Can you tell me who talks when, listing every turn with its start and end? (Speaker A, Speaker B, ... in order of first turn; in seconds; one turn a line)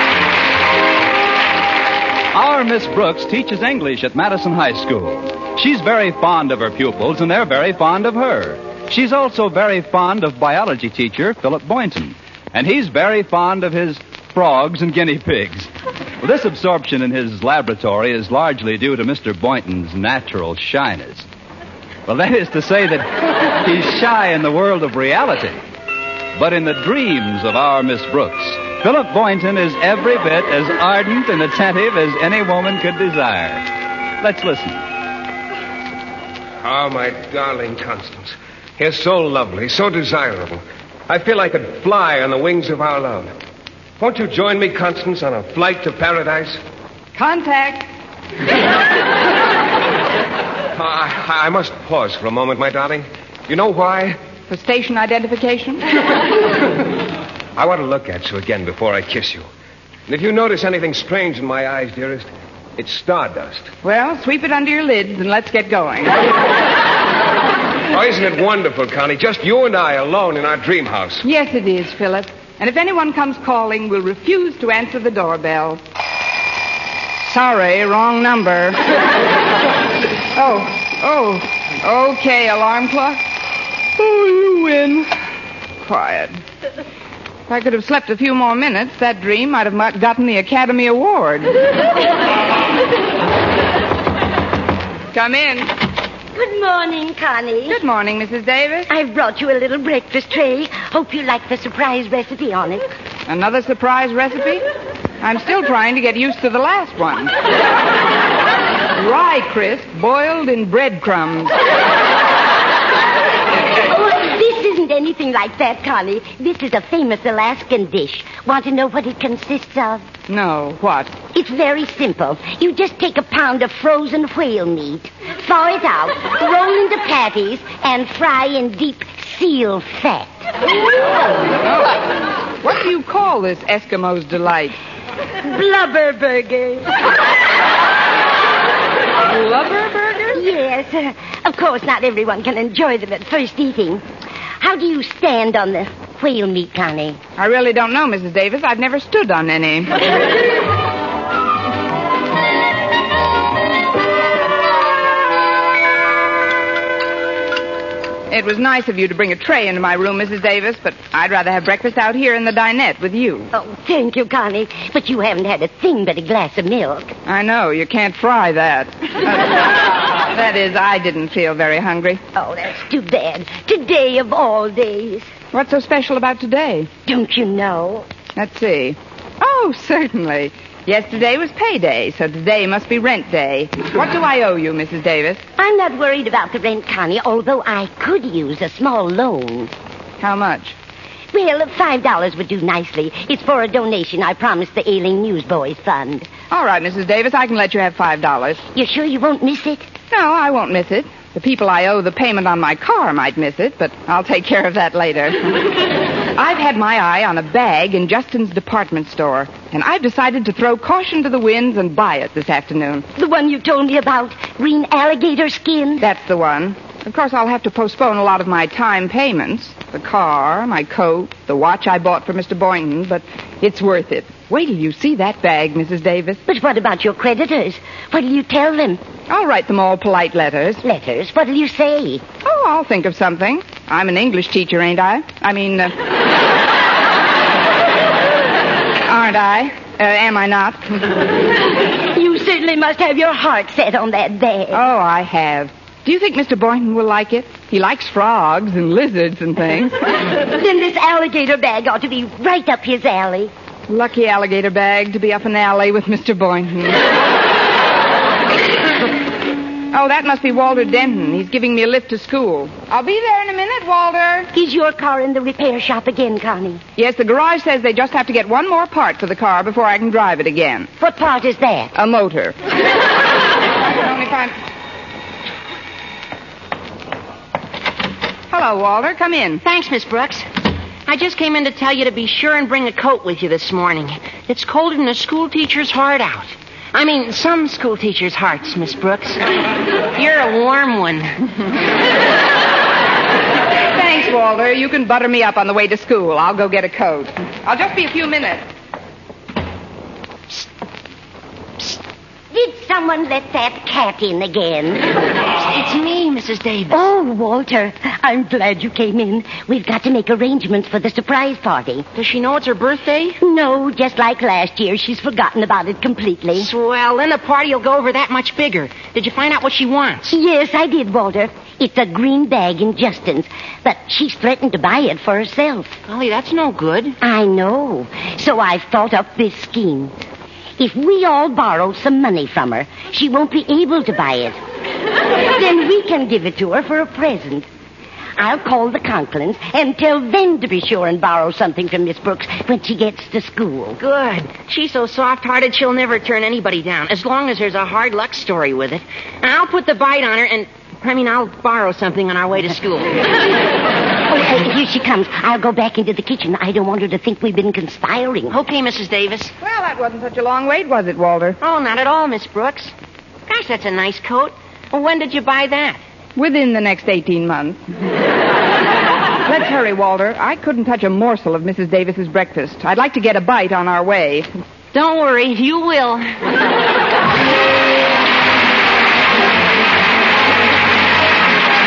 Speaker A: 2.3-15.7
Speaker A: 16.2-21.3
Speaker A: 22.1-25.6
Speaker A: 26.4-33.7
Speaker A: 34.2-34.8
Speaker B: 36.6-43.3
Speaker B: 44.0-46.6
Speaker C: 47.1-47.9
Speaker B: 50.7-54.2
Speaker C: 54.5-55.8
Speaker B: 57.5-59.5
Speaker B: 60.1-63.7
Speaker C: 63.8-66.2
Speaker B: 67.9-71.2
Speaker C: 71.2-75.8
Speaker C: 77.2-78.9
Speaker C: 80.3-83.2
Speaker C: 84.0-85.1
Speaker C: 85.8-86.3
Speaker C: 87.5-91.5
Speaker C: 95.1-95.7
Speaker D: 96.3-97.8
Speaker C: 97.7-98.9
Speaker D: 98.9-102.8
Speaker C: 103.3-104.6
Speaker C: 105.2-107.3
Speaker C: 108.9-111.6
Speaker D: 113.8-120.0
Speaker C: 120.3-121.2
Speaker D: 121.3-130.4
Speaker C: 131.6-132.0
Speaker C: 132.6-134.8
Speaker D: 135.4-137.0
Speaker C: 139.3-140.4
Speaker D: 140.3-144.0
Speaker D: 144.6-147.2
Speaker C: 147.4-150.0
Speaker C: 158.3-163.5
Speaker D: 163.5-167.1
Speaker C: 167.2-172.2
Speaker D: 172.3-175.3
Speaker C: 175.5-176.9
Speaker D: 177.1-178.1
Speaker C: 178.3-185.4
Speaker D: 185.6-189.7
Speaker C: 190.2-190.7
Speaker D: 191.3-196.3
Speaker C: 196.5-198.6
Speaker D: 198.7-199.9
Speaker C: 200.1-205.7
Speaker C: 206.3-213.1
Speaker D: 213.2-216.0
Speaker C: 216.0-226.4
Speaker D: 226.5-229.0
Speaker C: 229.3-230.8
Speaker D: 230.8-232.2
Speaker C: 232.4-235.9
Speaker C: 239.1-241.2
Speaker D: 242.1-244.8
Speaker C: 244.7-250.0
Speaker D: 250.4-253.5
Speaker C: 253.9-257.1
Speaker C: 259.9-264.5
Speaker D: 264.5-266.8
Speaker C: 267.0-270.9
Speaker D: 271.0-271.9
Speaker C: 271.9-272.6
Speaker C: 273.9-274.5
Speaker C: 278.5-279.6
Speaker E: 279.6-280.4
Speaker E: 281.1-289.4
Speaker E: 290.1-291.4
Speaker C: 293.9-298.6
Speaker D: 302.5-305.1
Speaker E: 305.6-307.1
Speaker D: 306.9-312.1
Speaker E: 312.1-313.4
Speaker D: 313.4-316.7
Speaker E: 316.5-320.4
Speaker D: 320.3-325.9
Speaker E: 326.1-327.2
Speaker D: 327.2-330.1
Speaker D: 330.8-334.6
Speaker D: 335.4-337.6
Speaker D: 338.4-344.0
Speaker E: 344.0-353.2
Speaker D: 354.3-358.6
Speaker E: 358.5-359.5
Speaker C: 359.6-361.6
Speaker E: 361.6-362.9
Speaker E: 363.5-366.0
Speaker C: 366.4-367.8
Speaker C: 369.4-374.5
Speaker E: 374.9-376.2